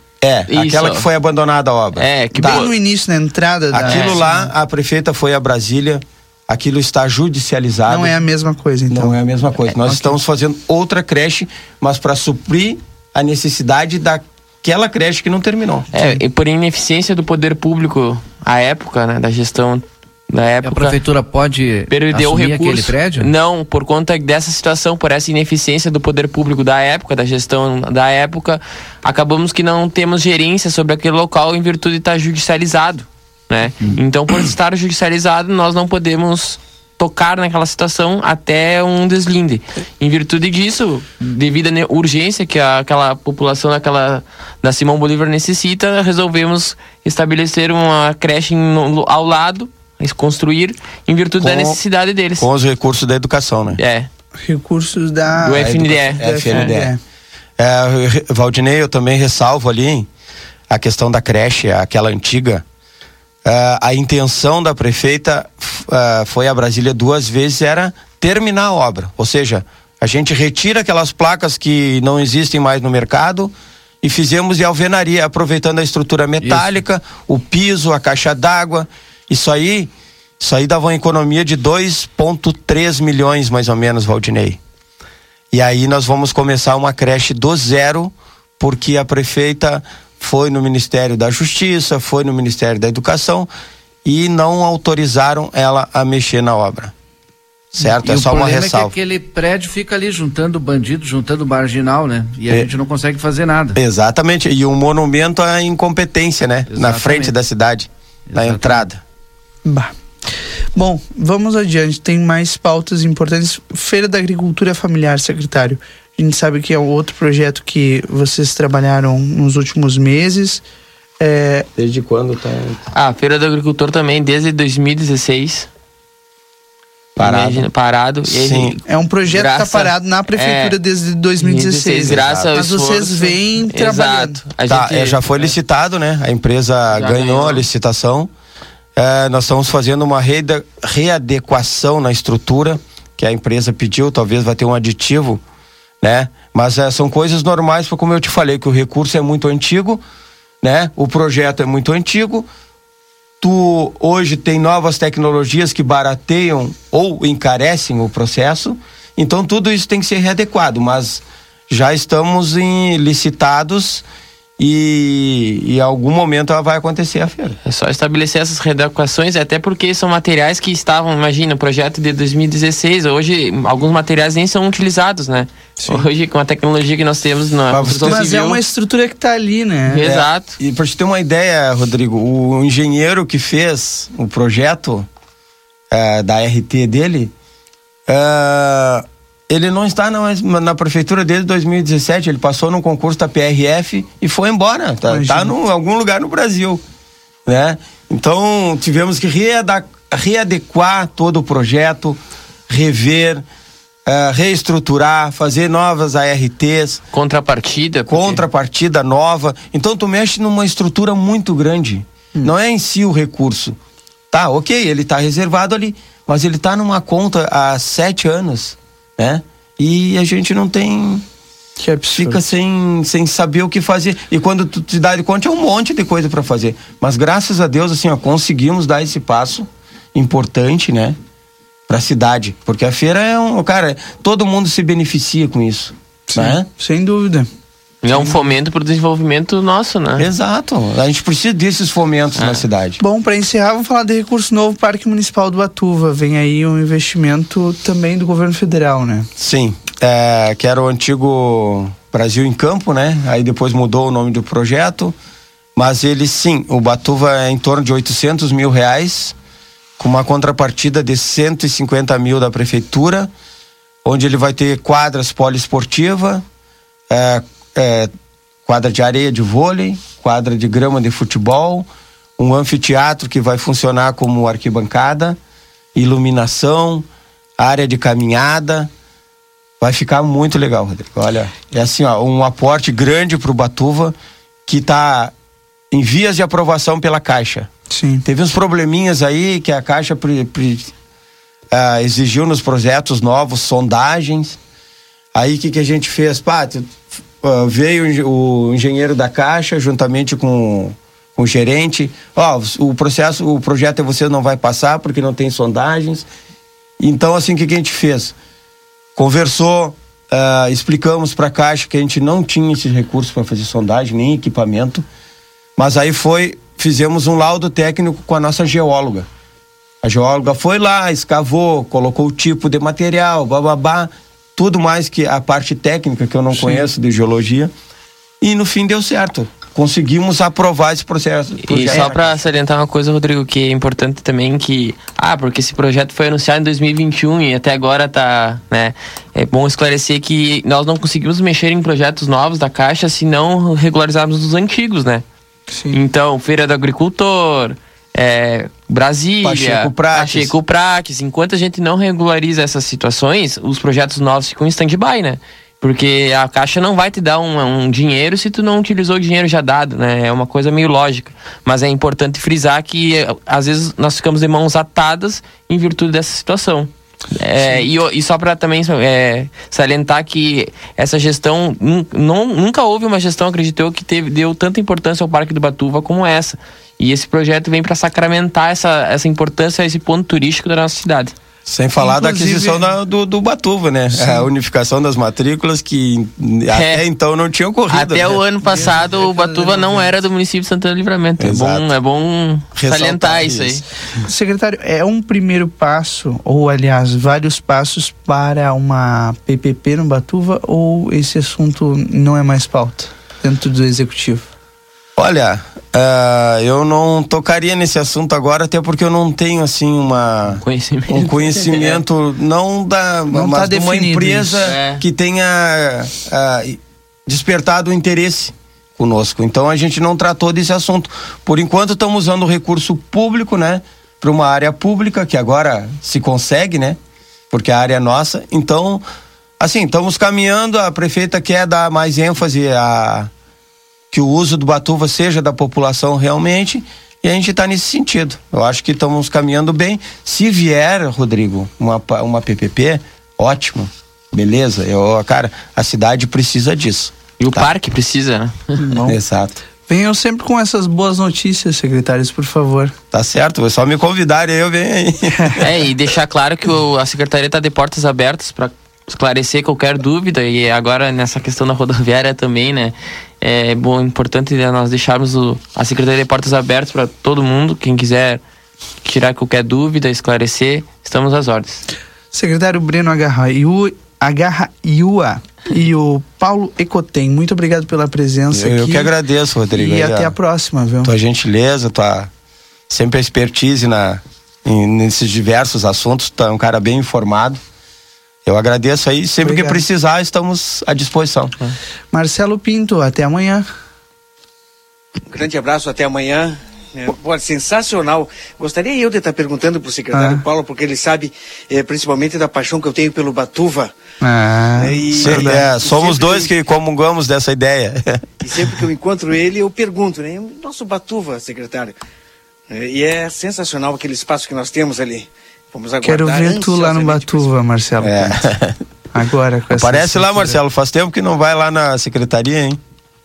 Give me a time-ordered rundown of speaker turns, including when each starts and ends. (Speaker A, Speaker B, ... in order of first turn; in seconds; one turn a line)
Speaker A: 0.2-2.6
Speaker B: 0.5-1.1
Speaker B: 2.0-2.7
Speaker C: 2.4-4.5
Speaker A: 3.7-8.2
Speaker B: 3.9-4.2
Speaker C: 7.9-9.2
Speaker A: 8.9-15.9
Speaker C: 9.8-10.2
Speaker B: 15.9-21.0
Speaker C: 15.9-16.2
Speaker D: 20.6-23.3
Speaker B: 21.9-52.5
Speaker A: 51.4-51.8
Speaker A: 52.4-53.8
Speaker B: 53.8-54.1
Speaker C: 54.4-57.0
Speaker B: 55.4-56.7
Speaker A: 55.5-56.9
Speaker A: 57.6-60.1
Speaker A: 60.7-62.6
Speaker A: 63.5-84.6
Speaker D: 76.4-76.8
Speaker A: 85.5-93.5
Speaker A: 94.0-96.9
Speaker A: 97.7-98.9
Speaker D: 97.9-103.8
Speaker A: 103.8-109.0
Speaker D: 106.7-107.3
Speaker D: 108.3-108.8
Speaker C: 109.7-120.6
Speaker C: 121.2-121.7
Speaker A: 121.8-122.8
Speaker B: 122.9-125.7
Speaker A: 127.2-127.7
Speaker B: 127.2-130.8
Speaker A: 128.3-128.8
Speaker C: 128.9-134.4
Speaker B: 131.4-135.5
Speaker A: 132.0-132.6
Speaker A: 134.7-138.3
Speaker B: 136.9-137.7
Speaker A: 139.0-145.4
Speaker A: 146.0-150.0
Speaker A: 150.6-152.5
Speaker A: 153.4-164.1
Speaker A: 164.6-167.6
Speaker B: 167.7-178.6
Speaker A: 177.7-178.2
Speaker C: 178.1-180.0
Speaker B: 179.9-180.5
Speaker A: 180.0-185.1
Speaker A: 185.9-187.3
Speaker A: 188.1-196.8
Speaker C: 195.1-195.5
Speaker A: 197.5-203.4
Speaker A: 204.1-207.0
Speaker B: 207.1-208.4
Speaker A: 208.1-213.8
Speaker A: 214.3-221.3
Speaker C: 221.8-222.4
Speaker A: 222.2-231.2
Speaker A: 231.9-236.7
Speaker C: 236.3-237.5
Speaker B: 238.0-240.3
Speaker A: 240.2-243.0
Speaker B: 242.4-242.6
Speaker C: 243.0-249.3
Speaker A: 249.4-255.2
Speaker A: 255.8-259.4
Speaker A: 260.0-263.3
Speaker A: 264.1-266.4
Speaker A: 267.1-268.1
Speaker A: 268.7-271.9
Speaker A: 272.4-275.4
Speaker A: 275.9-277.1
Speaker A: 277.6-278.9
Speaker A: 279.8-284.1
Speaker A: 284.7-285.3
Speaker A: 285.9-287.7
Speaker C: 287.9-288.2
Speaker A: 288.2-290.9
Speaker A: 291.7-294.6
Speaker A: 295.3-306.3
Speaker A: 307.0-308.3
Speaker A: 309.2-315.1
Speaker A: 315.8-319.3
Speaker A: 320.0-327.7
Speaker C: 326.5-326.9
Speaker A: 328.4-332.4
Speaker B: 331.7-345.2
Speaker C: 345.7-346.0
Speaker B: 345.9-381.4
Speaker A: 349.4-350.5
Speaker A: 381.7-388.4
Speaker C: 382.0-382.9
Speaker C: 384.1-384.5
Speaker B: 386.7-387.0
Speaker B: 387.9-393.9
Speaker C: 388.6-390.1
Speaker A: 391.4-391.9
Speaker A: 392.8-393.8
Speaker C: 394.2-404.5
Speaker A: 405.2-427.0
Speaker B: 410.6-412.0
Speaker C: 413.3-414.7
Speaker B: 414.6-415.0
Speaker A: 427.5-429.0
Speaker A: 429.6-433.3
Speaker A: 434.1-447.7
Speaker B: 447.4-449.0
Speaker C: 448.8-449.2
Speaker A: 449.1-449.6
Speaker C: 449.9-452.9
Speaker A: 453.1-455.6
Speaker B: 455.6-468.4
Speaker B: 469.0-471.8
Speaker C: 472.3-479.1
Speaker A: 478.5-480.4
Speaker C: 479.7-481.1
Speaker A: 481.0-482.3
Speaker A: 482.9-487.6
Speaker A: 488.5-491.5
Speaker C: 489.4-489.8
Speaker C: 492.1-493.7
Speaker E: 495.3-503.9
Speaker C: 500.1-500.4
Speaker C: 504.2-505.7
Speaker E: 504.8-506.6
Speaker A: 505.1-508.6
Speaker E: 508.4-511.9
Speaker E: 512.7-517.5
Speaker C: 516.0-518.4
Speaker A: 518.0-518.8
Speaker C: 519.1-520.6
Speaker A: 519.7-522.8